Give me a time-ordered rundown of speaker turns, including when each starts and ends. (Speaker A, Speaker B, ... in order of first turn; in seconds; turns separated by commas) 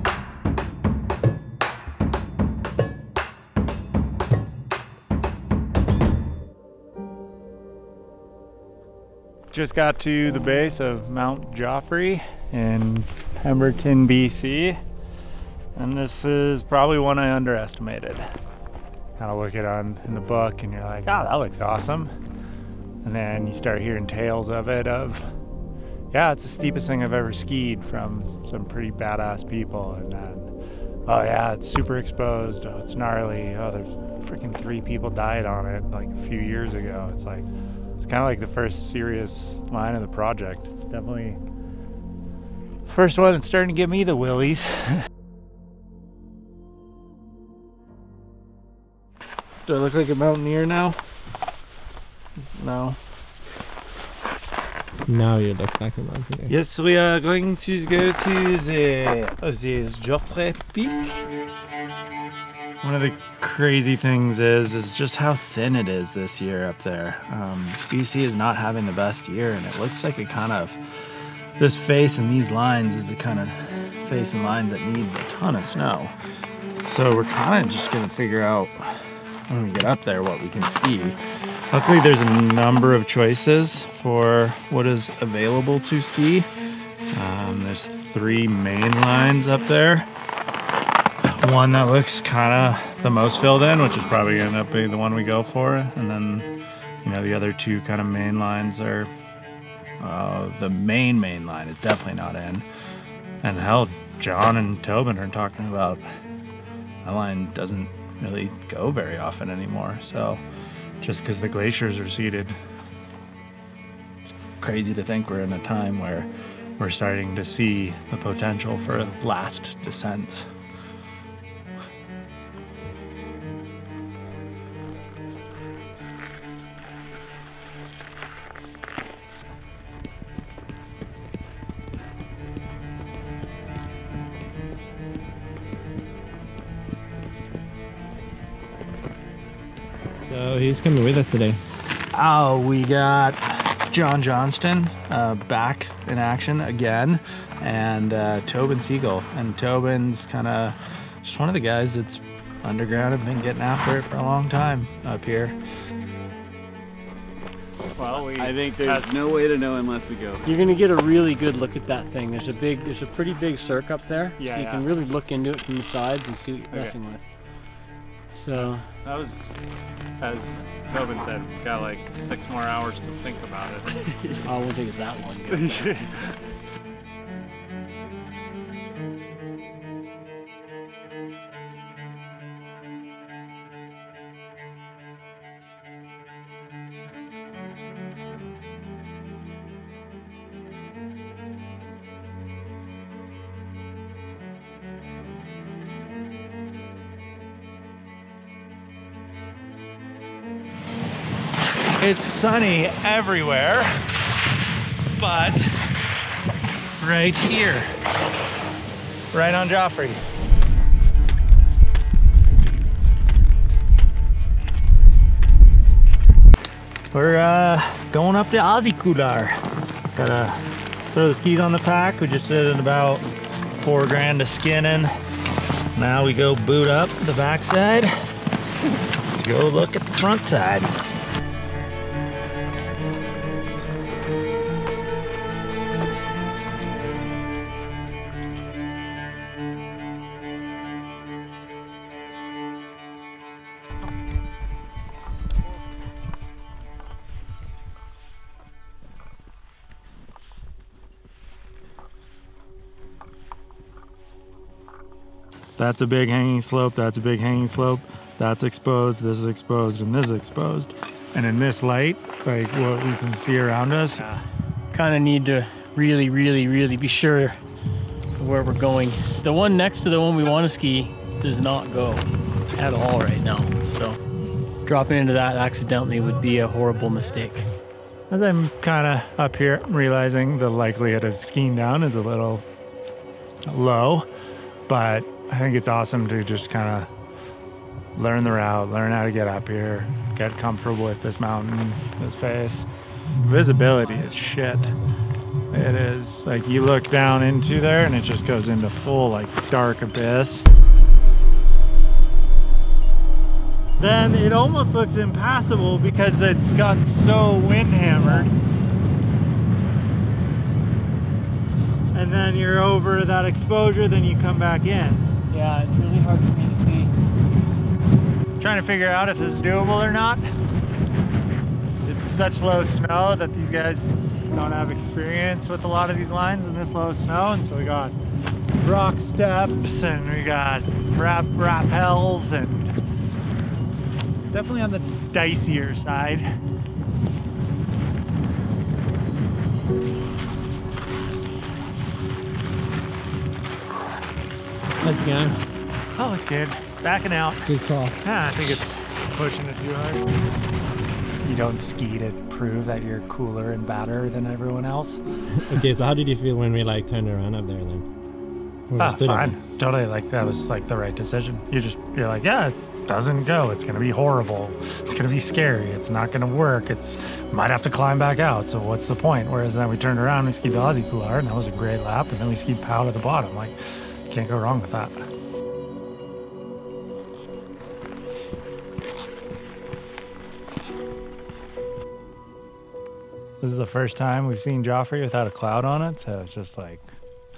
Speaker A: 9.5-14.8, Speaker A: 15.8-18.2, Speaker A: 19.2-22.1, Speaker A: 23.0-25.2, Speaker A: 26.1-30.5, Speaker A: 31.1-41.4, Speaker A: 42.9-45.0, Speaker A: 49.6-51.0, Speaker A: 52.6-53.0, Speaker B: 55.1-56.5, Speaker A: 56.5-61.1, Speaker A: 62.8-70.8, Speaker A: 71.6-76.2, Speaker A: 76.8-78.9, Speaker A: 79.5-81.2, Speaker A: 81.7-86.5, Speaker A: 87.1-90.1, Speaker A: 91.4-96.5, Speaker A: 97.0-99.1, Speaker A: 100.0-102.7, Speaker A: 103.4-106.0, Speaker A: 107.0-110.4, Speaker A: 111.0-112.6, Speaker A: 114.2-120.5, Speaker B: 140.2-141.6, Speaker A: 142.1-155.6, Speaker A: 158.0-159.2, Speaker C: 158.0-160.5, Speaker D: 160.4-167.2, Speaker A: 164.4-164.9, Speaker A: 166.7-167.0, Speaker D: 168.3-168.8, Speaker A: 168.5-169.6, Speaker A: 170.2-173.9, Speaker D: 174.4-176.0, Speaker A: 175.5-176.2, Speaker A: 202.0-203.9, Speaker A: 205.2-205.7, Speaker A: 207.0-207.9, Speaker A: 209.3-210.2, Speaker A: 217.1-219.6, Speaker A: 220.1-223.2, Speaker A: 223.8-225.1, Speaker A: 225.9-228.1, Speaker A: 229.3-230.9, Speaker A: 255.8-264.2, Speaker D: 264.9-267.6, Speaker D: 268.4-274.2, Speaker D: 274.8-277.7, Speaker A: 278.3-282.6, Speaker A: 283.7-284.3, Speaker A: 284.9-287.1, Speaker A: 288.1-292.9, Speaker A: 293.4-294.9, Speaker A: 295.7-300.6, Speaker A: 304.0-308.5, Speaker D: 308.1-308.5, Speaker A: 312.1-315.3, Speaker D: 315.5-317.1, Speaker A: 318.6-320.4, Speaker A: 322.0-328.1, Speaker A: 328.8-332.9, Speaker A: 334.4-336.5, Speaker B: 345.0-345.6, Speaker A: 346.1-347.7, Speaker B: 347.6-348.1, Speaker A: 348.2-350.3, Speaker A: 351.4-355.2, Speaker B: 355.6-358.1, Speaker B: 358.9-359.6, Speaker A: 359.0-373.8, Speaker A: 374.3-375.2, Speaker A: 383.6-387.1